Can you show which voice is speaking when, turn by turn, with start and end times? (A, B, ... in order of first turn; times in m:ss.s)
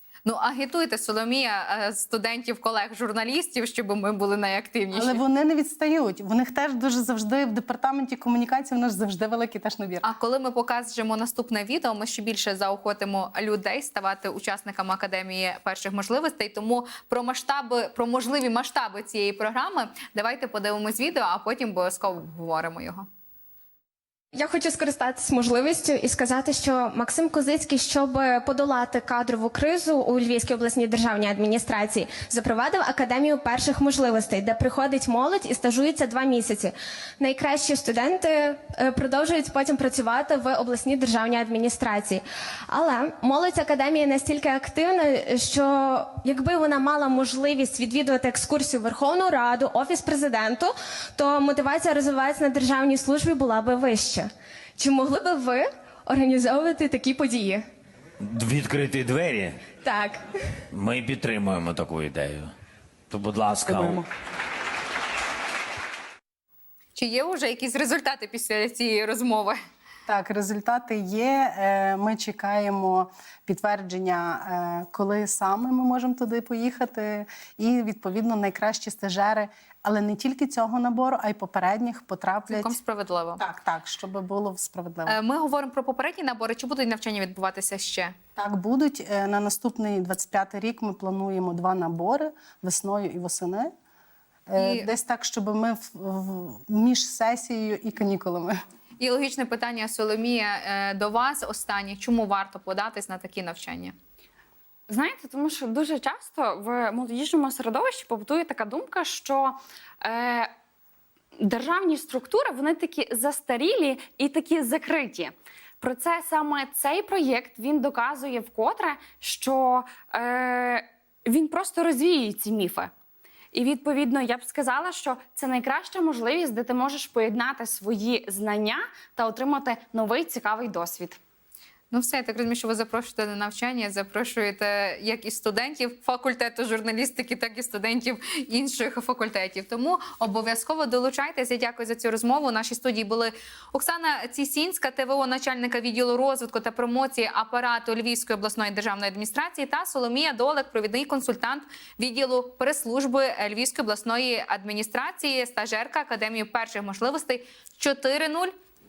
0:00.2-0:05.2 A
0:04.9-0:10.0 B
0:10.0-0:23.1 A
0:24.3-0:57.6 C
0:58.2-0:59.6 D
0:59.7-1:00.6 C
1:00.7-1:02.5 D
1:03.1-1:04.1 D
1:06.9-1:09.6 A
1:10.1-1:22.8 B
1:22.5-1:23.4 A
1:23.4-1:25.2 B
1:25.0-1:28.1 A
1:28.4-1:33.7 B
1:34.5-1:38.6 B
1:34.6-1:34.9 A
1:39.0-1:43.9 A
1:44.9-1:50.5 E
1:51.4-2:02.9 E
2:03.5-2:11.2 E
2:11.9-2:38.5 A